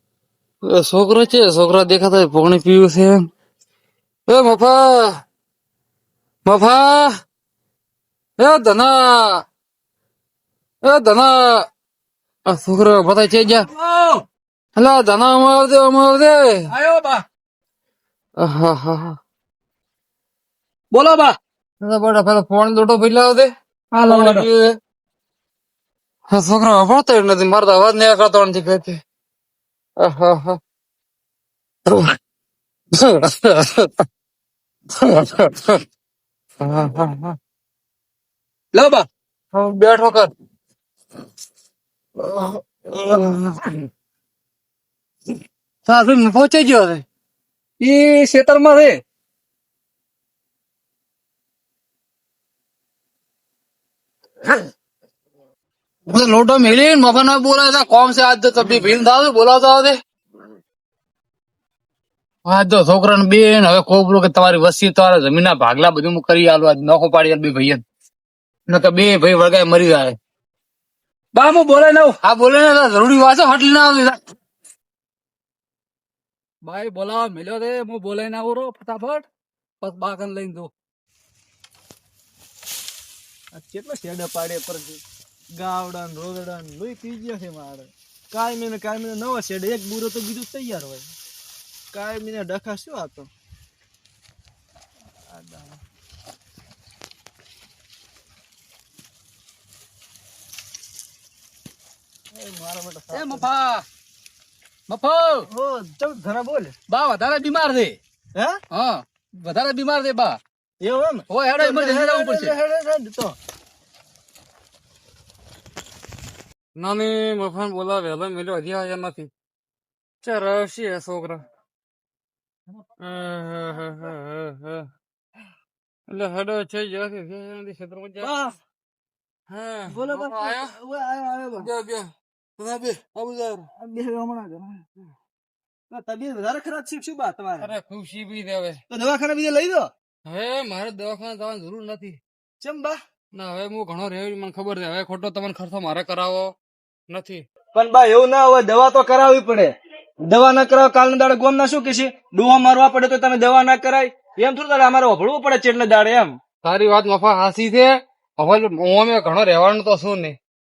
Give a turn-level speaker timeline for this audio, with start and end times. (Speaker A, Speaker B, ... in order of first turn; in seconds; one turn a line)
Speaker A: 0.6-3.3
Speaker A: 4.3-5.2
Speaker A: 6.5-7.1
Speaker A: 8.4-9.4
Speaker A: 10.8-11.7
Speaker A: 12.5-13.7
Speaker B: 13.7-14.2
Speaker A: 14.8-16.7
Speaker B: 16.7-17.2
Speaker A: 18.4-19.2
Speaker B: 20.9-21.4
Speaker A: 21.8-23.5
Speaker B: 23.9-24.5
Speaker A: 24.1-24.8
Speaker A: 26.3-29.0
Speaker A: 30.0-30.6
Speaker A: 31.9-32.2
Speaker A: 33.0-34.0
Speaker A: 35.0-35.8
Speaker A: 36.6-37.4
Speaker B: 38.7-39.1
Speaker A: 39.5-40.3
Speaker A: 42.2-43.7
Speaker A: 45.9-47.0
Speaker B: 47.8-49.0
Speaker A: 56.1-60.0
Speaker A: 62.5-67.8
Speaker A: 68.7-70.2
Speaker B: 71.3-72.2
Speaker A: 72.2-74.2
Speaker B: 76.6-79.3
Speaker B: 79.8-80.7
Speaker C: 83.5-85.0
Speaker C: 85.6-91.1
Speaker C: 91.9-93.3
Speaker C: 95.3-95.8
Speaker C: 102.3-103.5
Speaker B: 103.1-103.8
Speaker B: 104.9-105.5
Speaker C: 105.5-106.7
Speaker B: 106.9-108.0
Speaker B: 108.7-110.4
Speaker C: 110.8-113.4
Speaker B: 111.3-112.6
Speaker A: 116.8-119.3
Speaker A: 120.2-121.4
Speaker A: 123.0-124.9
Speaker A: 126.1-128.3
Speaker C: 128.2-128.5
Speaker A: 129.5-130.8
Speaker C: 129.9-131.7
Speaker A: 131.6-133.7
Speaker C: 133.7-134.8
Speaker C: 135.9-137.7
Speaker A: 137.6-138.8
Speaker C: 138.9-139.9
Speaker A: 140.3-142.2
Speaker C: 142.6-143.0
Speaker A: 143.3-146.5
Speaker A: 147.1-147.4
Speaker C: 147.7-149.7
Speaker C: 150.3-156.3
Speaker A: 156.6-160.4